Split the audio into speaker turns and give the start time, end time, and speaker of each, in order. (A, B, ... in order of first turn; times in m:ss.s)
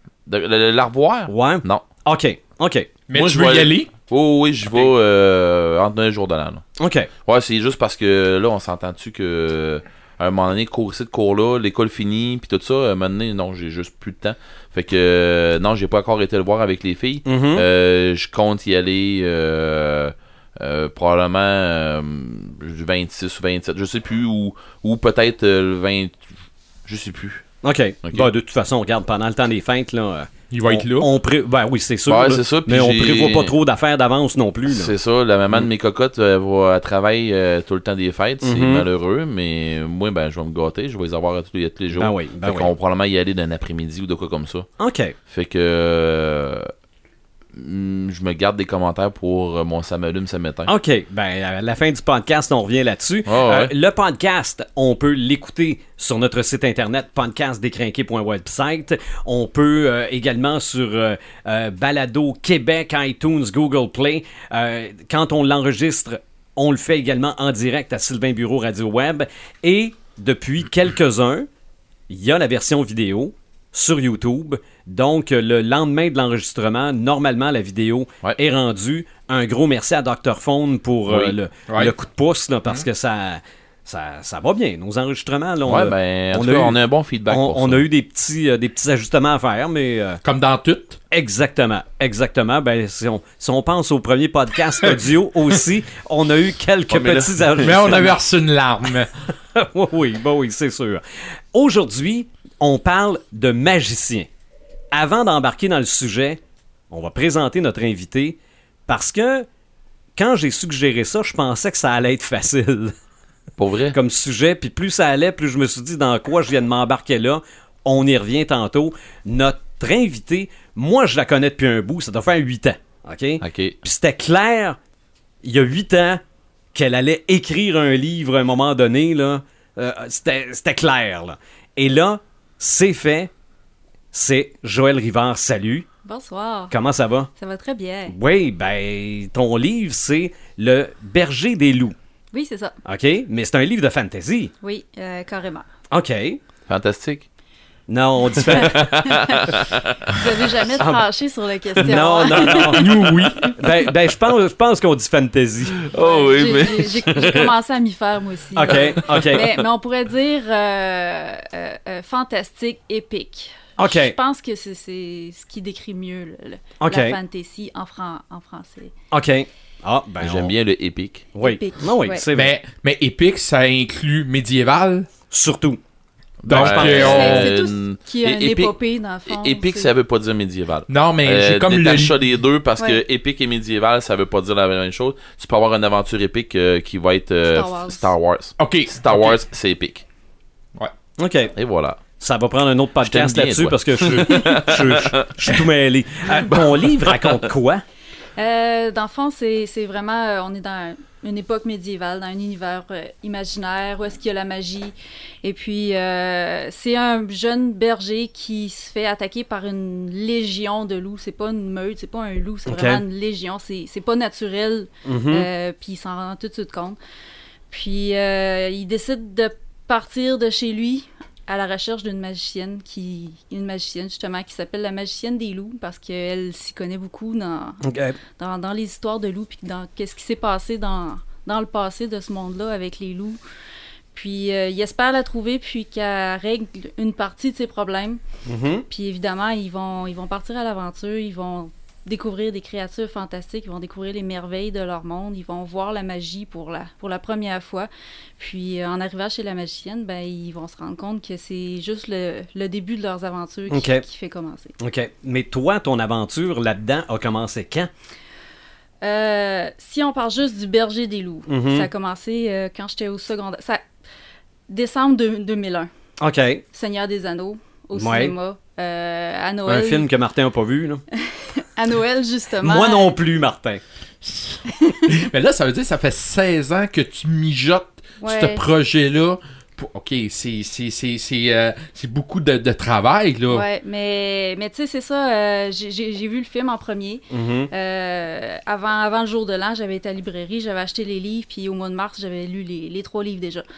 0:00.3-0:01.9 A
0:01.3-0:02.9 B
0:03.1-0:03.9 C
0:03.1-0:06.6 A
0:06.8-0:07.1 B
0:07.2-0:26.2 A
0:17.2-0:17.6 B
0:26.9-0:27.5 A
0:27.6-0:34.9 B
0:30.5-0:31.1 C
0:32.1-0:33.5 A
0:34.7-0:44.7 A
0:38.4-0:38.9 B
0:42.0-0:42.7 B
0:44.8-0:45.2 B
0:45.3-0:46.7 A
0:47.5-0:50.7 A
0:50.7-1:11.5 B
0:53.3-0:53.7 A
1:12.1-1:30.2 B
1:21.1-1:21.4 A
1:21.7-1:21.9 C
1:25.6-1:27.8 A
1:30.2-1:31.0 C
1:31.1-1:38.1 B
1:36.9-1:38.1 A
1:37.6-1:39.1 C
1:39.6-1:44.3 B
1:44.9-1:49.5 B
1:50.2-1:53.0 B
1:53.6-1:54.0 A
1:53.9-2:04.8 B
2:03.4-2:03.8 A
2:05.4-2:06.2 B
2:06.7-2:13.3 B
2:14.1-2:15.9 B
2:16.0-2:16.7 D
2:16.7-2:17.3 B
2:17.4-2:18.2 D
2:18.1-2:22.0 B
2:22.3-2:22.8 D
2:22.8-2:24.5 B
2:24.6-2:25.7 D
2:25.9-2:26.4 B
2:26.7-2:27.3 A
2:27.9-2:29.0 B
2:28.4-2:30.5 A
2:28.6-2:29.5 D
2:30.1-2:33.0 D
2:30.8-2:31.0 B
2:31.8-2:35.8 B
2:32.3-2:32.8 A
2:32.7-2:33.5 C
2:35.8-2:37.5 A
2:35.9-2:48.9 D
2:38.6-2:39.6 B
2:43.8-2:44.2 B
2:46.8-2:47.2 B
2:49.1-2:50.6 B
2:50.2-2:51.2 A
2:51.4-2:52.6 B
2:51.4-2:52.2 D
2:52.3-2:55.1 C
2:55.3-2:55.8 B
2:56.4-2:58.7 A
2:56.4-2:57.6 C
2:56.5-2:57.3 B
2:56.8-2:59.9 D
2:59.3-3:10.0 A
3:00.9-3:02.2 C
3:07.5-3:08.1 D
3:08.6-3:09.4 C
3:11.2-3:11.6 B
3:11.6-3:12.0 A
3:12.2-3:17.8 B
3:13.0-3:15.6 A
3:18.4-3:37.0 D
3:32.7-3:33.0 B
3:35.0-3:35.5 B
3:37.7-3:47.8 D
3:47.8-3:48.2 B
3:48.4-3:53.4 D
3:54.1-3:58.2 D
3:58.5-3:58.9 B
3:58.9-4:14.7 D
4:13.7-4:14.0 B
4:14.8-4:17.9 B
4:19.0-4:23.8 D
4:21.5-4:21.9 B
4:24.7-4:25.9 D
4:26.2-4:26.6 B
4:26.7-4:30.1 D
4:28.0-4:28.3 B
4:29.7-4:31.0 B
4:31.1-4:33.2 D
4:32.6-4:33.8 B
4:34.2-4:43.7 C
4:34.8-4:35.1 D
4:38.2-4:38.7 D
4:43.5-4:53.6 D
4:47.3-4:47.7 B